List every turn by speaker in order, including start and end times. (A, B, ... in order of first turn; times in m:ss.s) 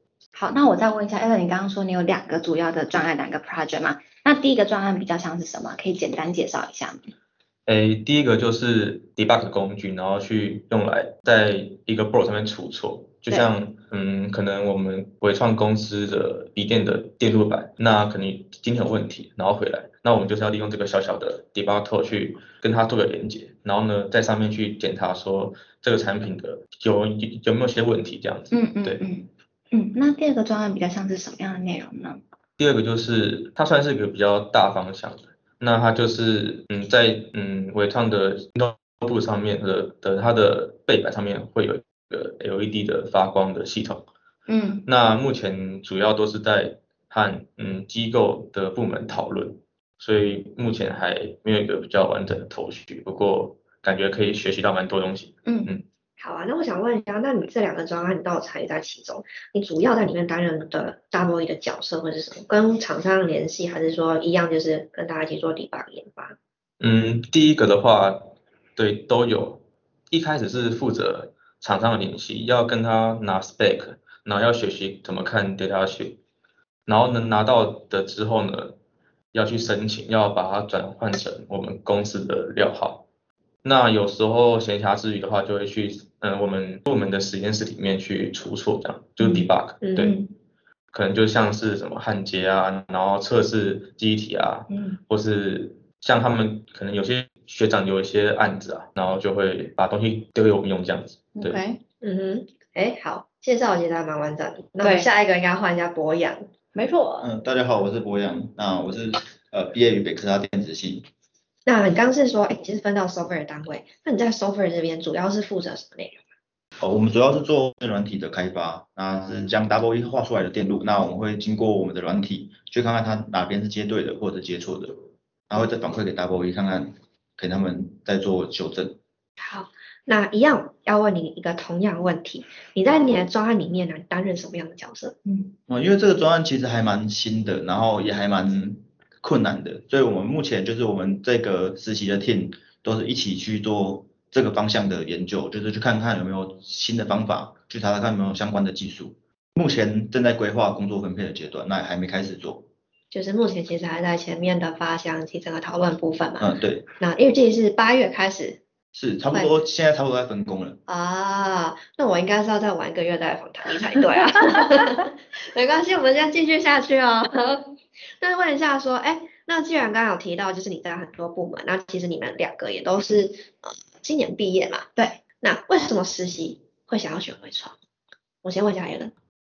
0:00.4-0:07.1 A
0:07.7-0:29.0 B
0:28.5-0:32.2 A
0:32.6-0:44.1 B
0:44.5-0:44.8 A
0:44.9-0:55.8 B
0:55.5-0:55.7 A
0:56.2-1:06.4 C
1:06.8-1:16.2 B
1:16.9-1:18.8 B
1:19.3-1:23.0 B
1:23.6-1:30.1 B
1:29.2-1:30.3 A
1:29.8-1:30.1 C
1:30.9-1:41.6 B
1:34.7-1:35.0 A
1:41.4-1:41.8 A
1:42.0-1:46.5 C
1:44.8-1:45.1 A
1:46.8-1:47.3 A
1:47.2-1:51.1 D
1:51.7-1:56.2 C
1:56.8-2:09.0 D
2:09.4-2:15.2 C
2:15.3-2:15.5 A
2:15.7-2:32.6 D
2:33.1-2:38.6 C
2:36.4-2:36.9 D
2:38.9-2:40.8 D
2:40.9-2:57.8 C
2:58.4-2:59.1 C